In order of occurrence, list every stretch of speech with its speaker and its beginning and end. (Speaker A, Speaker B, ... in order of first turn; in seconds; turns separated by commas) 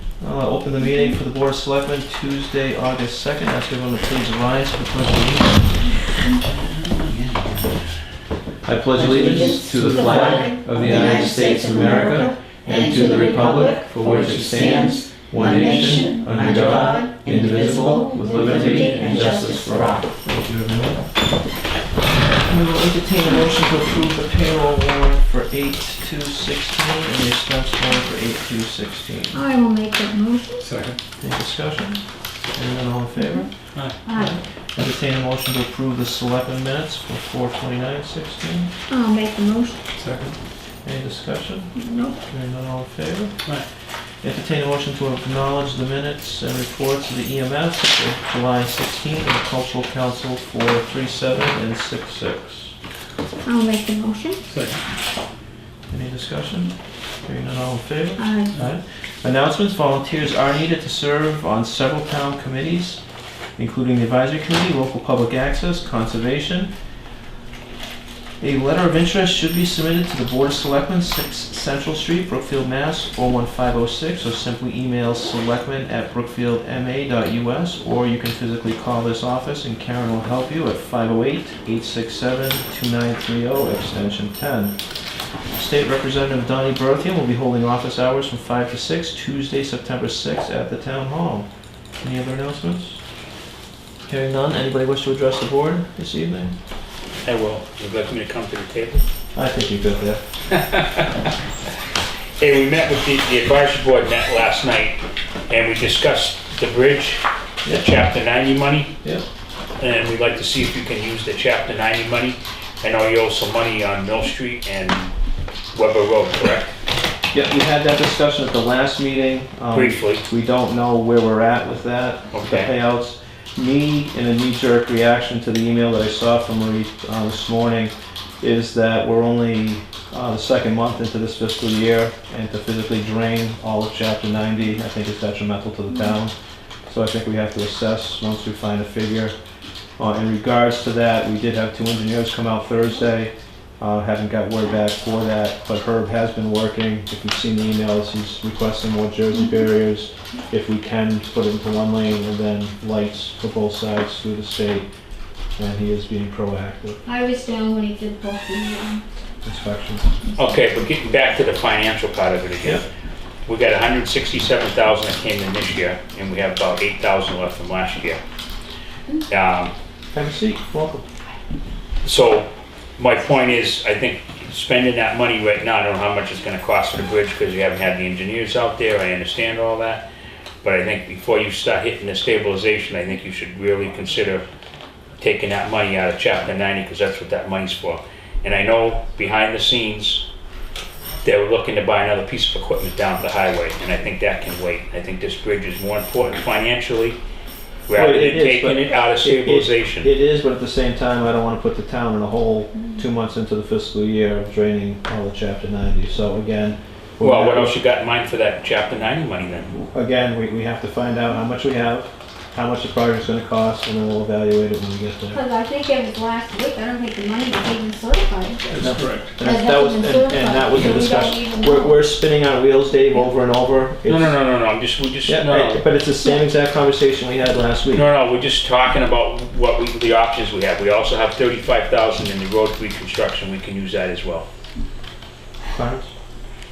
Speaker A: 0.2-6.0, Speaker B: 0.8-1.1, Speaker C: 6.4-7.8, Speaker A: 8.6-21.1, Speaker B: 9.0-20.0, Speaker D: 9.7-11.7, Speaker D: 13.4-20.0, Speaker A: 22.4-29.4, Speaker B: 29.3-30.7, Speaker D: 30.6-31.0, Speaker A: 31.2-38.7, Speaker B: 33.2-33.5, Speaker B: 34.0-34.4, Speaker B: 38.9-39.8, Speaker D: 40.0-40.4, Speaker A: 40.8-43.5, Speaker B: 41.7-42.2, Speaker A: 44.2-52.7, Speaker B: 53.4-54.4, Speaker D: 54.5-54.8, Speaker A: 55.9-63.0, Speaker B: 58.2-58.5, Speaker A: 63.6-66.7, Speaker A: 68.4-84.8, Speaker A: 85.5-91.5, Speaker A: 92.0-93.0, Speaker A: 94.0-96.5, Speaker C: 97.2-99.0, Speaker A: 99.3-100.2, Speaker C: 100.5-101.2, Speaker C: 102.4-109.0, Speaker A: 107.6-107.9, Speaker C: 109.8-115.1, Speaker C: 115.7-116.7, Speaker A: 117.3-136.3, Speaker C: 119.7-120.2, Speaker C: 122.3-122.7, Speaker A: 136.9-139.3, Speaker A: 140.0-154.9, Speaker A: 155.6-157.0, Speaker B: 157.1-159.0, Speaker A: 159.4-160.2, Speaker C: 160.4-162.8, Speaker C: 163.4-168.2, Speaker C: 169.3-169.7, Speaker A: 170.1-171.0, Speaker C: 172.0-180.0, Speaker C: 180.6-184.5, Speaker C: 185.2-190.2, Speaker C: 191.2-197.2, Speaker C: 197.9-200.1, Speaker A: 197.9-207.8, Speaker C: 207.2-209.8, Speaker A: 209.9-215.4, Speaker B: 215.3-222.0, Speaker D: 218.7-219.4, Speaker A: 218.8-224.4, Speaker C: 224.1-225.8, Speaker A: 225.2-228.1, Speaker C: 227.9-234.4, Speaker A: 235.7-236.1